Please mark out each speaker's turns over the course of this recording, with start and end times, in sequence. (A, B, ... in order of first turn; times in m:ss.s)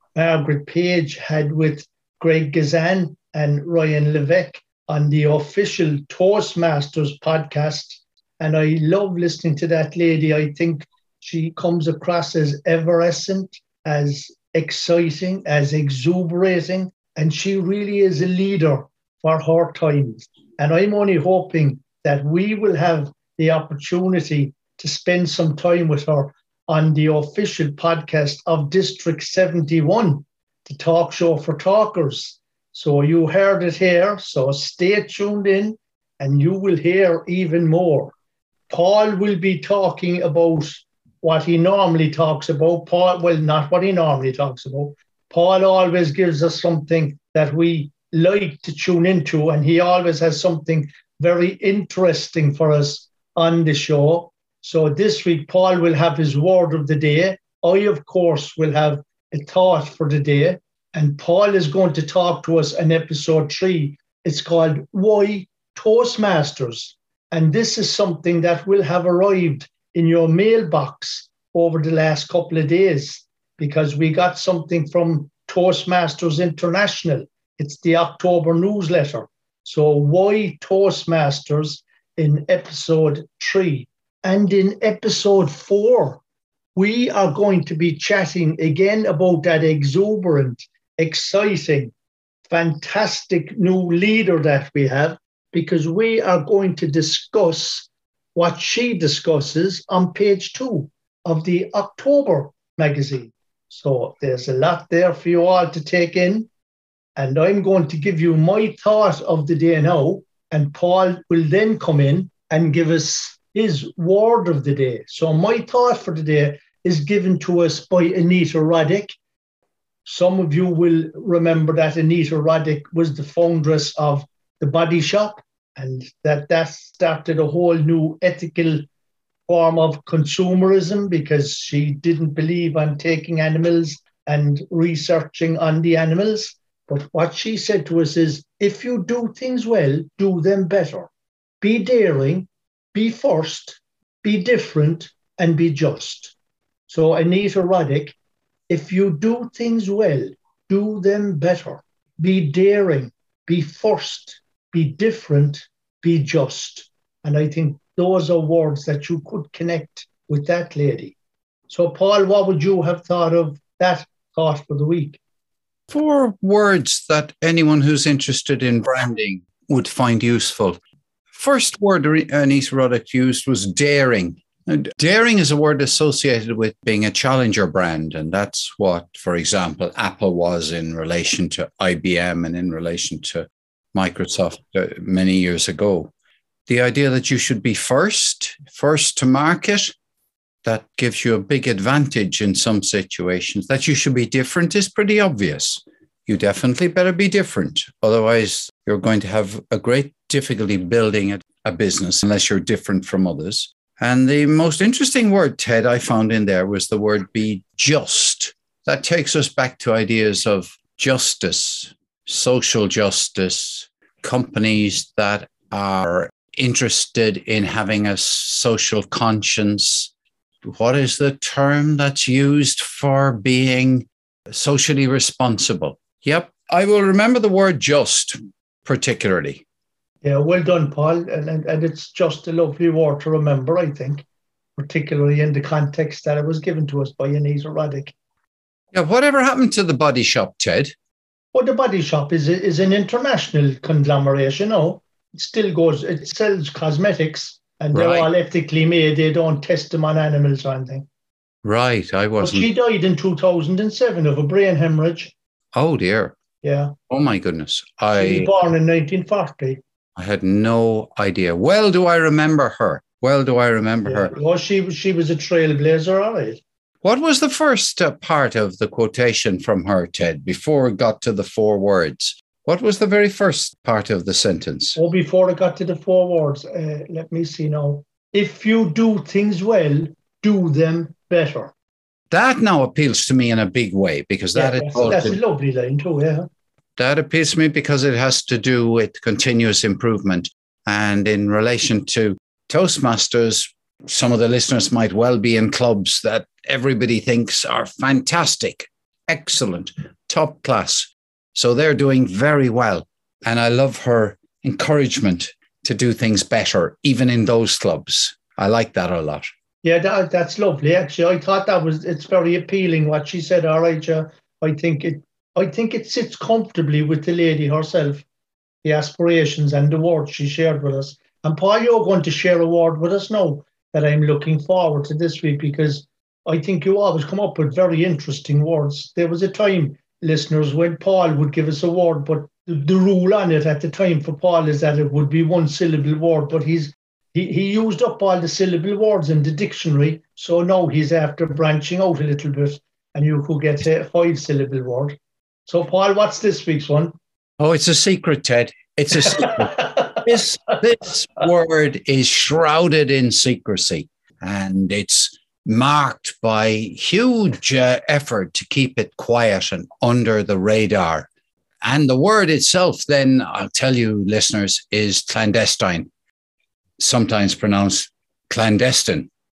0:00.2-0:38.2 A
0:38.7-1:26.2 A
1:26.8-1:31.9 A
1:32.5-1:46.5 A
1:47.2-1:59.2 A
2:00.0-2:08.8 A
2:09.5-2:21.1 A
2:21.6-2:26.4 A
2:26.9-2:28.2 A
2:28.7-2:41.2 A
2:41.7-2:45.2 A
2:45.9-2:50.8 B
2:51.3-3:06.1 B
3:06.7-3:09.9 B
3:10.6-3:40.1 B
3:40.6-3:49.6 B
3:50.2-3:54.2 A
3:54.8-3:58.2 A
3:58.9-4:00.9 B
4:01.5-4:11.1 A
4:07.9-4:08.3 B
4:11.6-4:12.7 B
4:12.4-4:15.3 A
4:15.8-4:16.4 B
4:16.6-4:17.0 A
4:17.1-4:18.5 B
4:18.1-4:19.8 A
4:20.2-4:24.3 B
4:24.0-4:26.6 A
4:27.0-4:35.0 B
4:35.0-4:41.7 A
4:42.3-4:45.4 B
4:44.5-4:46.5 A
4:47.0-5:09.5 B
5:09.8-5:18.2 A
5:18.8-5:47.1 A
5:47.6-6:01.3 B
6:01.8-6:06.1 B
6:07.0-6:09.3 B